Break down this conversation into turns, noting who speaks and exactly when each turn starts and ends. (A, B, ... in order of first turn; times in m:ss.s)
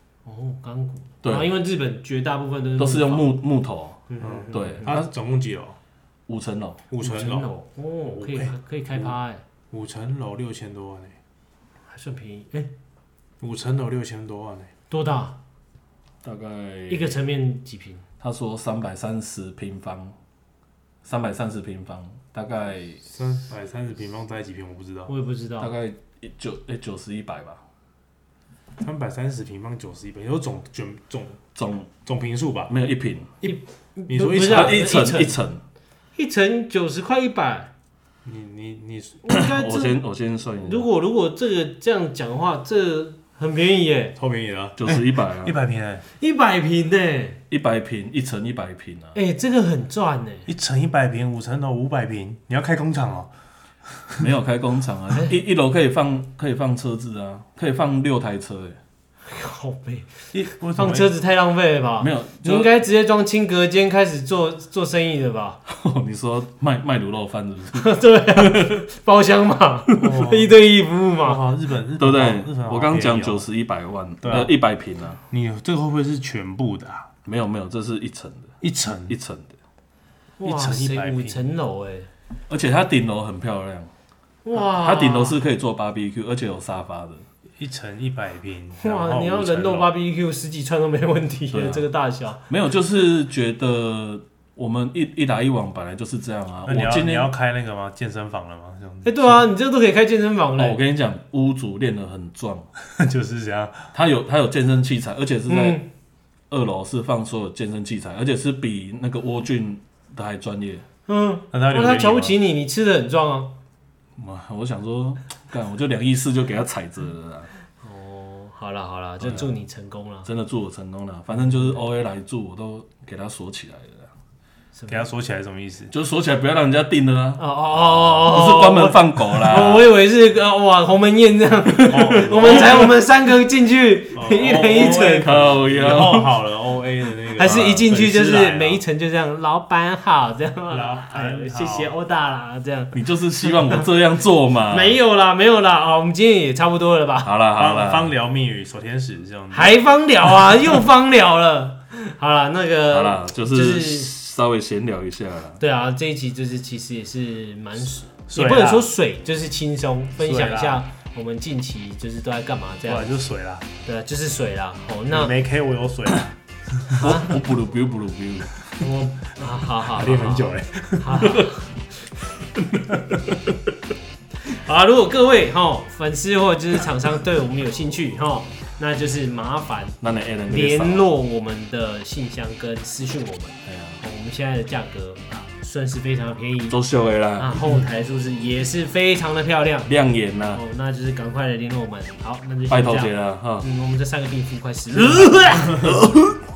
0:00.2-0:03.4 A
0:01.2-0:01.5 B
0:02.8-0:05.1 B
0:04.1-0:04.9 A
0:04.2-0:05.8 C
0:06.3-0:06.8 B
0:06.9-0:07.5 C
0:07.0-0:09.4 A
0:08.1-0:09.1 C
0:09.7-0:11.2 C
0:11.9-0:12.7 A
0:13.4-0:14.7 C
0:14.9-0:15.4 A
0:16.2-0:17.2 B
0:16.9-0:18.0 A
0:18.2-0:20.1 B
0:21.0-0:23.0 B
0:23.1-0:25.1 C
0:25.1-0:25.7 A
0:25.6-0:27.6 B
0:28.8-0:31.4 C
0:31.5-0:31.9 B
0:32.0-0:32.7 C
0:32.7-0:33.3 B
0:33.4-0:34.8 C
0:33.4-0:35.4 A
0:34.4-0:35.6 B
0:36.2-0:37.7 A
0:38.2-0:39.2 C
0:39.2-0:40.0 A
0:39.3-0:40.9 B
0:40.6-0:44.2 A
0:44.2-0:46.0 C
0:44.8-0:45.6 B
0:46.2-0:47.4 A
0:47.5-0:49.2 B
0:49.1-0:50.5 A
0:50.5-0:53.3 C
0:54.2-0:58.8 B
0:59.3-1:05.6 A
1:00.3-1:01.1 C
1:02.0-1:02.7 B
1:05.6-1:08.8 B
1:07.7-1:11.4 A
1:10.0-1:10.5 C
1:11.2-1:13.5 C
1:12.0-1:15.2 B
1:14.2-1:14.5 C
1:15.3-1:17.1 C
1:17.2-1:18.5 B
1:18.6-1:19.2 C
1:19.1-1:19.5 B
1:20.4-1:22.1 A
1:20.4-1:21.4 C
1:22.5-1:23.9 B
1:24.4-1:25.4 A
1:24.5-1:27.2 B
1:27.6-1:29.9 C
1:28.8-1:32.4 A
1:31.5-1:31.8 B
1:32.5-1:37.3 B
1:36.6-1:39.4 C
1:39.0-1:40.8 A
1:40.6-1:42.7 B
1:43.0-1:43.9 C
1:43.9-1:45.8 B
1:45.5-1:45.8 A
1:46.5-1:50.8 B
1:51.1-1:53.5 A
1:51.5-1:52.4 C
1:54.2-1:57.5 B
1:57.8-2:00.3 A
1:59.2-1:59.5 B
2:00.2-2:04.1 B
2:01.3-2:01.7 A
2:04.7-2:05.1 A
2:04.9-2:05.9 C
2:05.9-2:09.9 B
2:07.4-2:16.2 A
2:11.8-2:12.9 C
2:14.1-2:18.8 C
2:14.6-2:16.3 B
2:17.4-2:23.8 A
2:20.7-2:21.9 C
2:22.9-2:25.0 B
2:24.7-2:27.3 A
2:27.2-2:28.1 B
2:27.5-2:29.7 C
2:29.5-2:34.1 A
2:32.9-2:35.6 B
2:35.6-2:43.2 A
2:38.3-2:38.9 C
2:40.2-2:40.8 C
2:42.8-2:43.7 C
2:43.8-2:45.3 A
2:45.1-2:46.3 C
2:47.0-2:47.3 A
2:47.0-2:48.5 B
2:48.8-2:51.7 A
2:49.9-2:51.5 C
2:52.8-2:53.4 C
2:54.5-3:06.8 A
3:00.0-3:01.1 B
3:03.6-3:04.0 B
3:06.7-3:07.6 B
3:07.4-3:09.9 A
3:09.9-3:10.6 B
3:10.5-3:16.2 A
3:12.7-3:13.7 B
3:15.7-3:16.0 C